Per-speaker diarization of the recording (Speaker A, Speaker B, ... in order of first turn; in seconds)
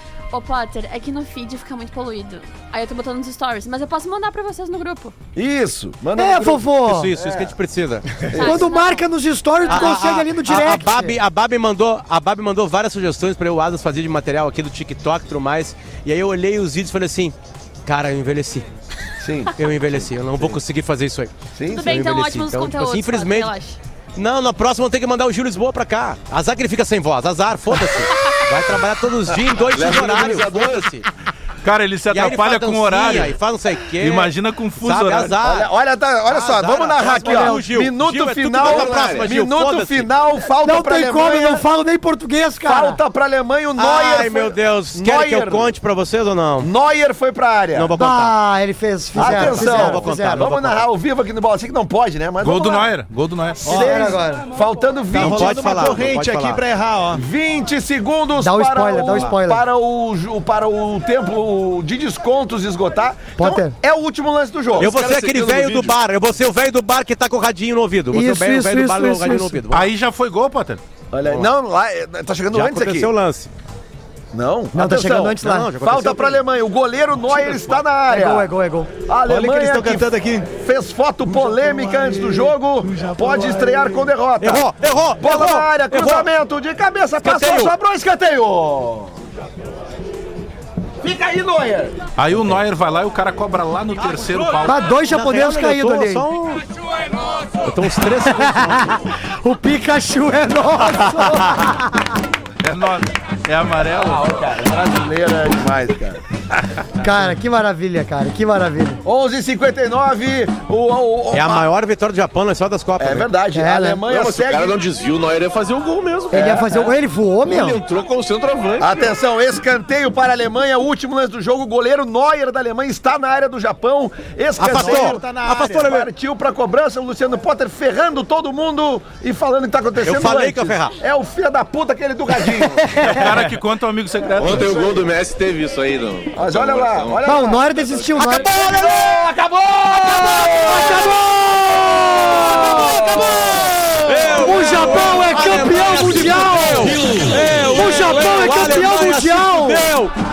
Speaker A: 0.3-5.1, 8.3-9.1, 9.6-10.1, 21.7-23.8, 28.1-28.4
Speaker B: 5.4-7.5, 8.3-8.6, 19.2-20.6, 21.6-22.2, 35.4-41.6, 42.6-45.7, 46.6-48.0, 49.2-52.9, 53.7-55.7, 57.1-64.9, 71.1-73.1, 74.3-78.5, 79.1-84.7, 85.2-89.1, 91.0-92.0, 104.1-106.2, 109.0-111.7, 113.0-114.8, 116.3-116.7, 118.8-125.2, 125.8-132.8, 136.3-137.8, 138.6-143.9, 146.9-147.2
Speaker C: 6.2-7.1, 8.3-11.2, 36.7-37.7, 40.6-43.0, 48.0-50.5, 53.7-54.5, 58.4-59.6, 63.4-63.8, 68.1-69.6, 74.7-75.7, 78.1-78.9, 94.7-96.2, 98.3-102.1, 107.0-109.0, 113.5-114.1, 116.3-117.8, 132.7-133.5, 137.2-138.5, 140.6-143.4, 144.2-149.9
Speaker D: 6.8-8.5, 9.7-17.4, 17.9-18.7, 19.6-23.6, 24.2-31.1, 32.1-35.7, 36.7-40.1, 43.8-46.7, 47.7-48.3, 49.1-50.9, 55.2-56.6, 64.8-69.9, 71.2-71.5, 72.5-73.5, 75.4-76.4, 84.4-86.3, 87.2-87.7, 95.1-96.6, 97.6-98.9, 111.3-113.3, 124.6-126.1, 130.0-131.0, 138.3-138.9, 140.0-141.2, 144.1-150.1
Speaker E: 29.7-30.9, 38.6-39.4, 114.1-116.9, 117.4-119.2, 134.4-138.4
Speaker F: 31.6-33.4, 34.0-35.4, 52.4-53.8, 64.8-66.0, 69.7-70.8, 92.2-94.8, 102.6-104.5, 133.0-134.7
Speaker G: 53.6-54.2, 55.1-57.2, 79.3-80.5, 81.3-84.1, 124.7-125.9